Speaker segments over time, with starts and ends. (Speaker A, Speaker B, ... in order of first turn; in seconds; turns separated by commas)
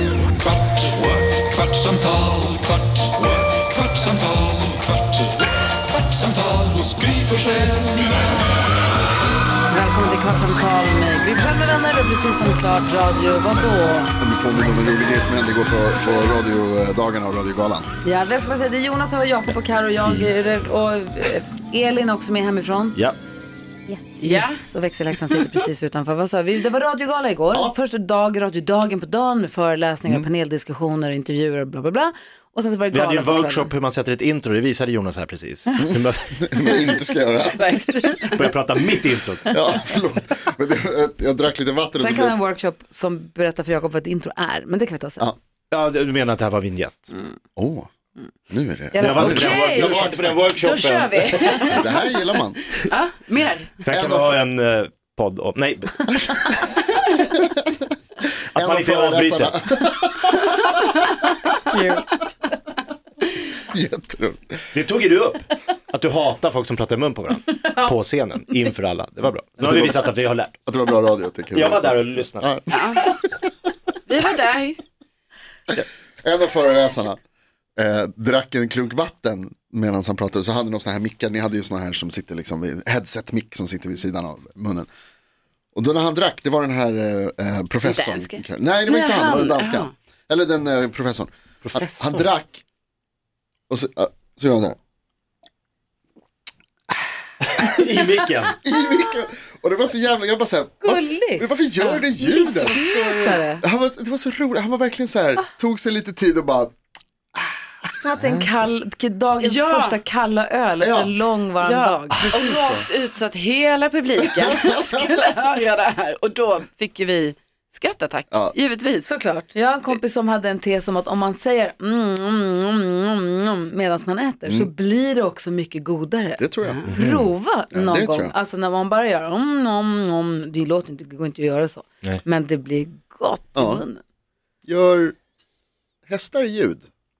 Speaker A: 0.4-5.4, Speaker A: 6.0-8.1, Speaker B: 9.7-14.2, Speaker C: 14.2-17.9, Speaker B: 18.0-23.0, Speaker B: 23.9-33.7, Speaker D: 24.2-24.6, Speaker E: 32.9-36.5, Speaker C: 35.9-37.9, Speaker D: 37.5-38.5, Speaker E: 38.3-39.6, Speaker C: 39.5-42.4, Speaker B: 42.0-45.3, Speaker E: 45.7-47.1, Speaker C: 47.6-47.9, Speaker C: 48.5-50.4, Speaker B: 48.9-49.8, Speaker E: 49.0-51.8, Speaker D: 49.2-52.1, Speaker C: 51.7-52.6, Speaker D: 52.8-53.7, Speaker E: 53.8-56.8, Speaker C: 53.9-54.4, Speaker E: 58.5-59.6, Speaker C: 58.5-60.6, Speaker B: 61.7-62.0, Speaker C: 63.7-64.7, Speaker E: 64.7-70.6, Speaker C: 69.6-70.1, Speaker C: 70.7-73.5, Speaker E: 71.5-72.5, Speaker D: 72.7-73.0, Speaker D: 74.1-74.8, Speaker C: 75.7-77.2, Speaker C: 77.8-84.9, Speaker C: 85.8-92.6, Speaker D: 87.8-89.9, Speaker E: 91.7-92.3, Speaker C: 93.7-94.8, Speaker E: 97.4-98.6, Speaker C: 98.6-102.8, Speaker B: 100.8-103.6, Speaker D: 102.5-103.4, Speaker C: 103.6-106.7, Speaker B: 108.0-112.3, Speaker C: 108.0-108.5, Speaker D: 109.4-110.0, Speaker C: 110.8-111.2, Speaker D: 111.6-119.1, Speaker C: 112.1-112.9, Speaker C: 114.4-115.1, Speaker B: 119.0-134.0, Speaker C: 126.4-126.9, Speaker D: 126.7-127.0, Speaker E: 126.9-127.3, Speaker C: 127.7-128.3, Speaker C: 133.6-133.8, Speaker C: 134.7-135.2, Speaker C: 136.1-136.9